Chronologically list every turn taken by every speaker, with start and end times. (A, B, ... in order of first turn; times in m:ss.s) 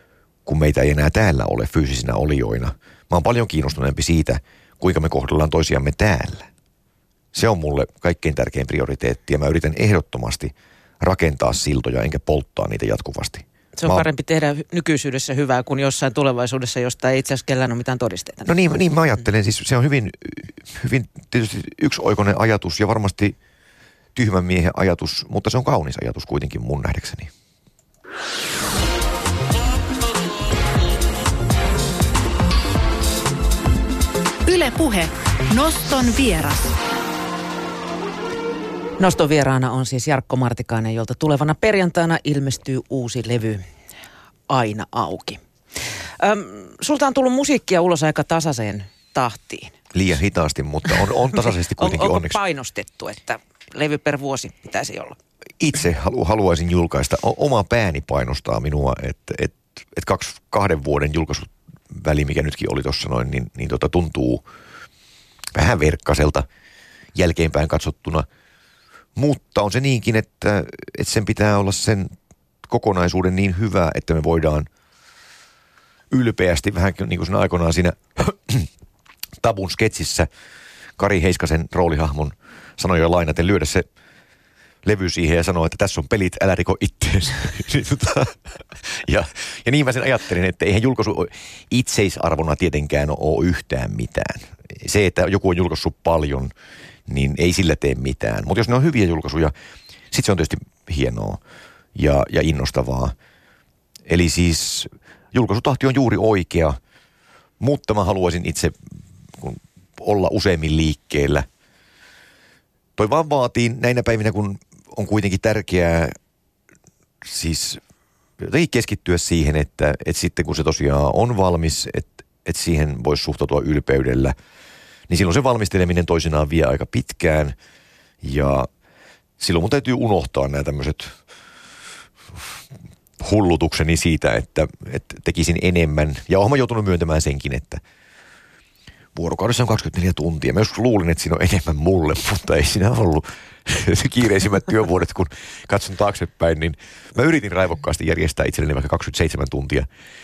0:00.4-0:06.5 A
0:07.3-0:14.1 A
0:13.8-0:18.5 B
0:18.4-0:23.4 A
0:24.1-0:27.3 A
0:34.4-0:36.8 C
0:39.0-0:43.7 B
0:44.5-0:49.8 B
0:49.9-0:52.4 A
0:51.3-0:55.2 B
0:55.6-1:04.4 A
1:05.5-1:06.4 A
1:07.1-1:08.3 A
1:09.2-1:14.7 A
1:16.1-1:18.7 A
1:19.4-1:20.3 A
1:21.0-1:23.9 A
1:24.8-1:36.5 A
1:37.1-1:39.5 A
1:40.1-1:41.4 A
1:41.9-1:43.1 A
1:44.0-1:46.8 A
1:47.6-1:48.8 A
1:49.4-1:51.5 A
1:53.0-1:56.1 A
1:57.2-1:57.8 A
1:58.4-2:04.4 A
2:05.1-2:07.6 A
2:08.2-2:08.7 A
2:09.4-2:11.2 A
2:13.2-2:17.8 A
2:19.1-2:29.9 A